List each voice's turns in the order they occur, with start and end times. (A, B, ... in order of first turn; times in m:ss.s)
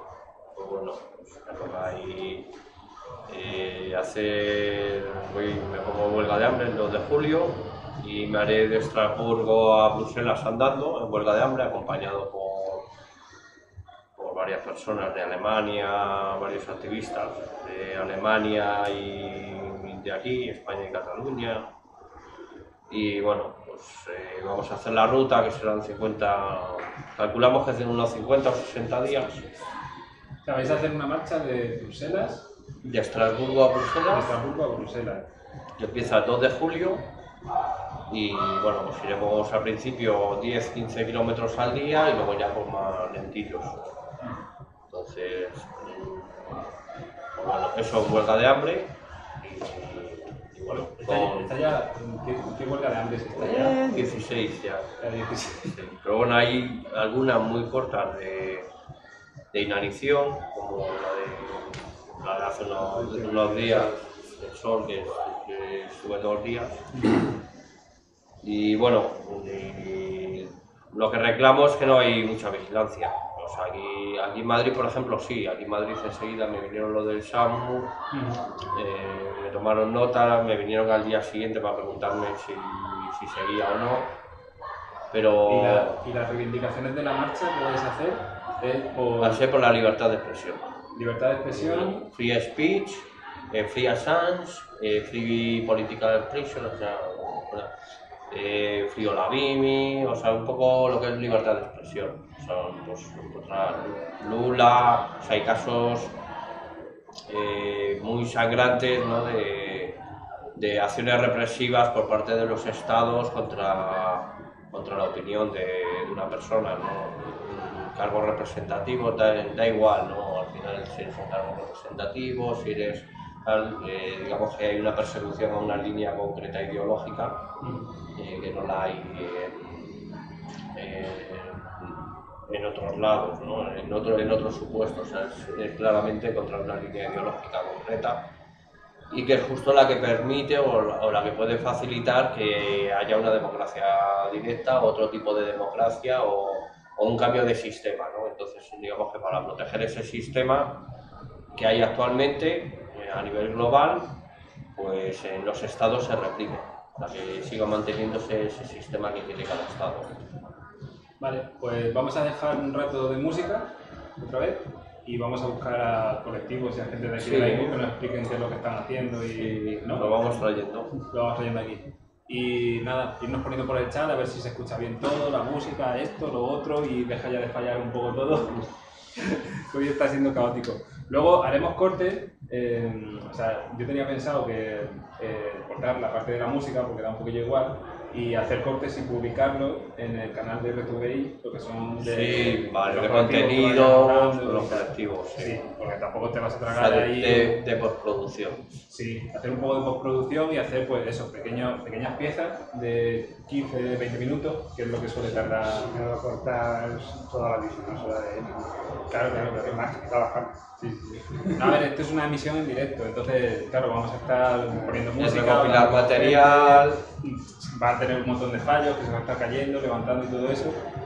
0:00.6-0:02.5 A
0:03.3-0:12.8 A
0:14.2-0:21.7 A
0:22.9-0:29.5 A
0:30.4-0:32.5 B
0:32.8-0:34.3 A
0:34.1-0:35.3 B
0:35.8-0:37.1 A
0:38.1-0:43.8 A
0:44.9-0:46.7 A
0:47.4-0:51.6 A
0:50.7-0:53.8 B
0:53.4-0:55.0 A
0:55.0-0:55.8 B
0:55.5-0:58.7 A
0:59.5-1:06.9 A
1:02.9-1:03.9 C
1:08.4-1:17.9 A
1:18.1-1:18.4 B
1:18.7-1:24.1 A
1:25.1-1:26.0 A
1:25.5-1:29.4 B
1:29.2-1:30.7 A
1:30.9-1:32.1 B
1:31.5-1:37.7 A
1:38.3-1:46.1 A
1:47.3-1:50.0 A
1:50.6-2:07.4 A
2:07.6-2:07.9 B
2:08.2-2:10.1 A
2:10.8-2:18.2 A
2:19.1-2:30.8 A
2:31.5-2:34.1 A
2:34.8-2:40.2 A
2:41.2-2:50.5 B
2:47.2-2:47.8 A
2:49.3-2:50.9 A
2:51.0-2:58.6 B
2:59.2-3:17.6 B
3:12.0-3:15.6 A
3:16.7-3:18.8 A
3:18.9-3:25.9 B
3:25.3-3:30.5 C
3:29.1-3:29.9 B
3:30.8-3:40.8 B
3:34.7-3:35.1 C
3:35.2-3:37.0 A